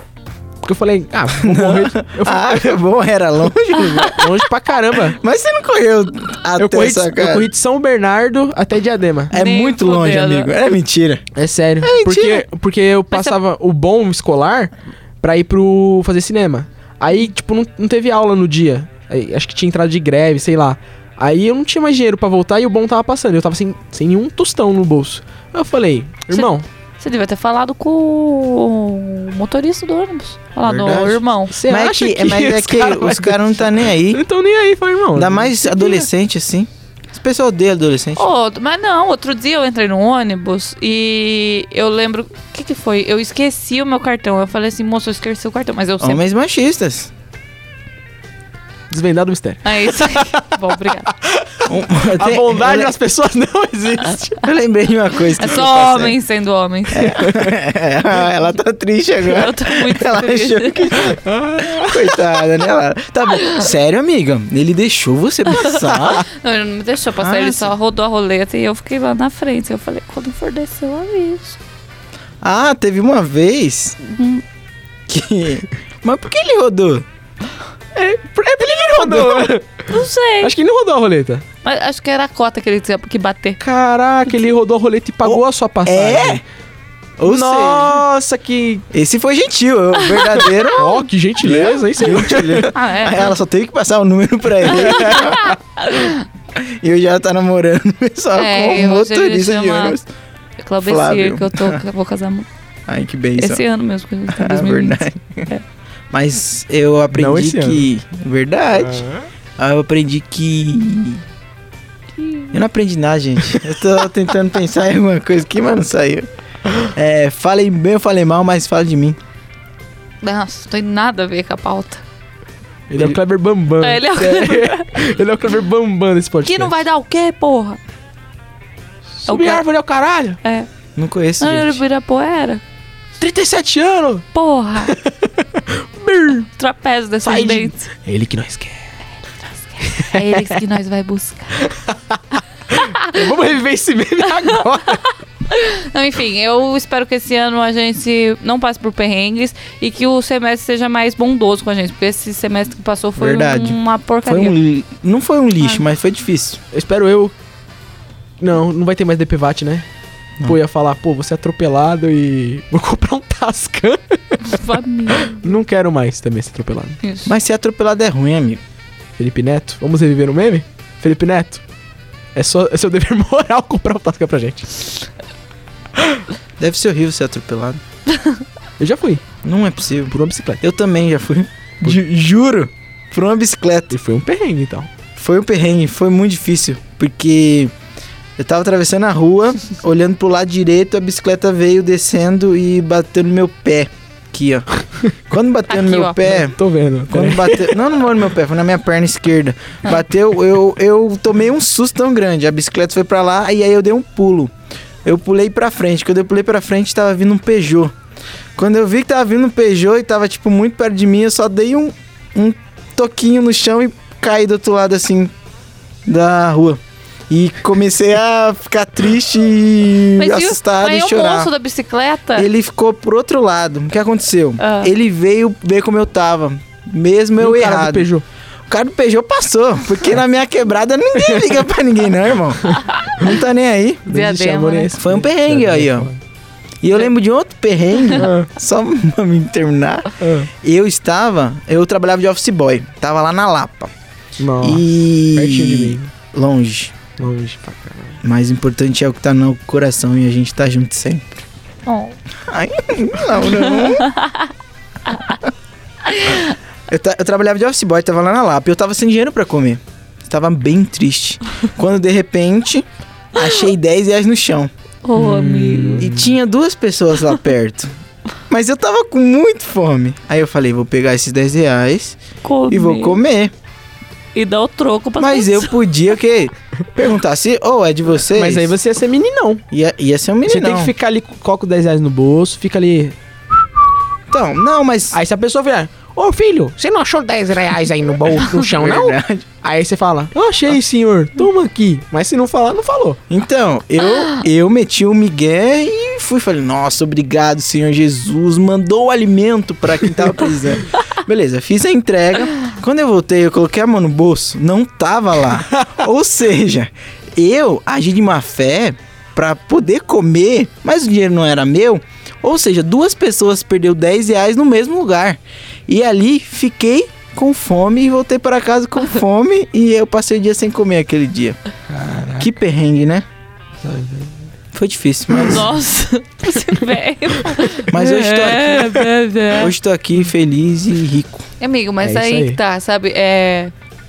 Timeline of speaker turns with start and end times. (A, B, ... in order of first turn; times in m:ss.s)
0:00.6-0:02.8 A
0:01.3-0:04.3 B
0:03.8-0:04.2 C
0:04.1-0:05.2 A
0:05.2-0:07.5 B
0:06.6-0:09.3 A
0:09.3-0:10.5 C
0:09.3-0:11.3 B
0:11.3-0:26.6 A
0:11.8-0:12.4 B
0:13.1-0:13.4 C
0:26.3-0:31.5 C
0:30.6-0:34.2 B
0:31.5-0:35.6 A
0:35.1-0:38.2 B
0:35.8-0:36.0 C
0:38.2-0:46.2 C
0:46.0-0:47.1 B
0:48.9-0:54.4 A
0:49.6-0:51.1 C
0:51.6-0:52.9 B
0:54.4-0:56.2 B
0:55.4-0:57.3 C
0:56.9-1:06.2 B
0:59.3-1:01.2 C
1:01.2-1:02.3 A
1:05.6-1:11.6 C
1:07.2-1:07.7 B
1:12.4-1:14.0 B
1:14.1-1:14.4 C
1:15.1-1:17.0 B
1:17.9-1:19.9 A
1:19.9-1:20.5 C
1:20.4-1:21.4 A
1:21.6-1:23.6 C
1:23.6-1:26.4 A
1:25.2-1:26.4 B
1:27.2-1:28.8 A
1:27.2-1:28.0 B
1:28.9-1:35.6 B
1:30.2-1:30.8 C
1:30.8-1:32.7 A
1:32.7-1:33.3 C
1:34.8-1:36.2 C
1:36.6-1:40.0 B
1:38.3-1:40.0 C
1:40.6-1:42.5 C
1:40.8-1:41.8 B
1:42.9-1:43.6 B
1:43.4-1:45.6 C
1:44.3-1:45.5 B
1:46.1-1:49.0 B
1:47.1-1:47.8 A
1:48.8-1:49.3 A
1:49.6-1:51.2 B
1:52.2-1:52.5 C
1:52.5-1:56.3 B
1:56.8-1:59.2 B
2:00.2-2:02.0 C
2:02.9-2:06.7 A
2:03.8-2:04.9 C
2:06.4-2:07.8 C
2:09.2-2:10.4 A
2:09.3-2:09.6 C
2:10.4-2:10.7 C
2:11.0-2:11.8 B
2:11.4-2:12.6 C
2:13.2-2:14.2 A
2:14.3-2:14.9 C
2:14.8-2:16.5 A
2:16.6-2:17.9 C
2:17.2-2:18.9 A
2:19.4-2:21.6 C
2:19.8-2:20.6 A
2:21.6-2:25.1 A
2:22.8-2:23.2 C
2:25.5-2:34.6 C
2:33.2-2:36.6 B
2:36.7-2:37.3 A
2:38.4-2:39.9 A
2:40.4-2:47.0 A
2:44.4-2:45.6 C
2:47.0-2:47.3 C
2:47.2-2:48.6 B
2:49.2-2:51.6 A
2:52.3-2:55.0 A
2:56.6-2:57.8 B
2:58.1-2:58.4 C
2:58.8-2:59.2 A
2:59.4-3:03.9 B
3:00.0-3:00.6 A
3:03.9-3:04.9 A
3:05.2-3:07.7 B
3:08.4-3:24.5 B
3:15.7-3:16.4 C
3:16.5-3:17.8 A
3:25.0-3:27.9 B
3:28.6-3:35.3 B
3:36.0-3:41.5 B
3:40.2-3:42.5 C
3:42.4-3:48.1 B
3:44.6-3:44.9 C
3:47.4-3:48.2 A
3:48.7-3:54.0 B
3:51.2-3:51.6 A
3:54.0-3:54.9 C
3:54.0-3:56.2 A
3:55.0-3:56.1 B
3:56.8-4:03.9 B
3:58.2-3:58.5 A
4:00.2-4:00.5 A
4:04.4-4:06.1 A
4:04.6-4:07.0 B
4:07.2-4:08.2 A
4:08.2-4:11.2 B
4:11.8-4:12.2 C
4:12.5-4:14.1 B
4:14.0-4:14.5 C
4:16.1-4:16.5 C
4:16.9-4:24.7 B
4:25.0-4:26.1 C
4:25.2-4:26.3 A
4:26.0-4:27.9 B
4:28.5-4:33.5 B
4:32.4-4:33.2 C
4:34.3-4:35.8 C
4:35.2-4:38.7 B
4:38.3-4:39.6 A
4:39.7-4:40.9 B
4:40.4-4:43.7 A
4:44.3-4:45.2 B
4:45.1-4:53.2 A
4:48.5-4:49.5 B
4:53.3-5:21.6 B
5:05.7-5:06.0 A
5:21.9-5:22.5 A
5:22.4-5:23.2 B
5:23.8-5:24.4 A
5:24.7-5:25.7 B
5:25.4-5:29.7 C
5:27.6-5:27.8 A
5:27.9-5:31.4 B
5:31.6-5:33.7 C
5:32.0-5:32.6 A